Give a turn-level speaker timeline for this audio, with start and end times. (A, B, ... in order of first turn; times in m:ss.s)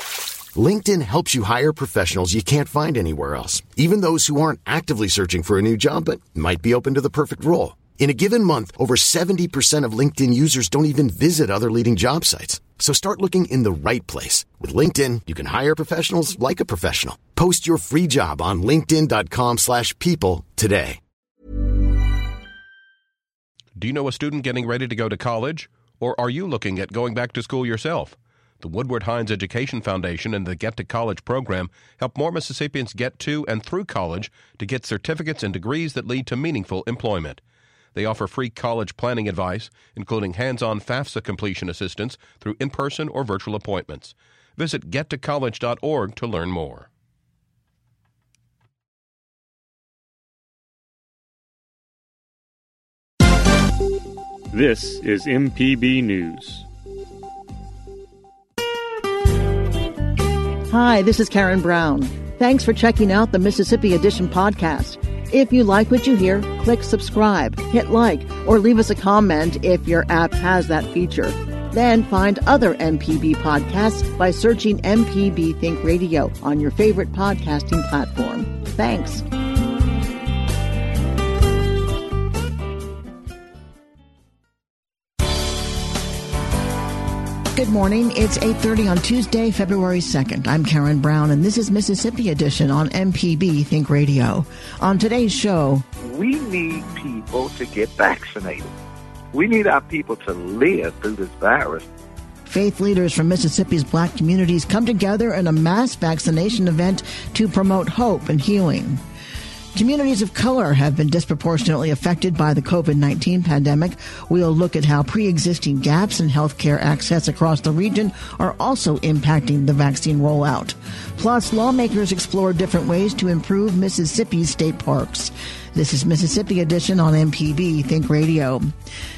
0:00.5-0:21.0 A
0:23.8-0:37.4 B
0:37.9-0:46.9 B
0:54.5-0:56.6 C
1:00.7-1:19.2 D
1:27.5-1:35.8 D
1:36.0-1:38.7 E
1:39.3-1:41.8 E
1:42.4-1:49.0 D
1:49.7-2:08.7 D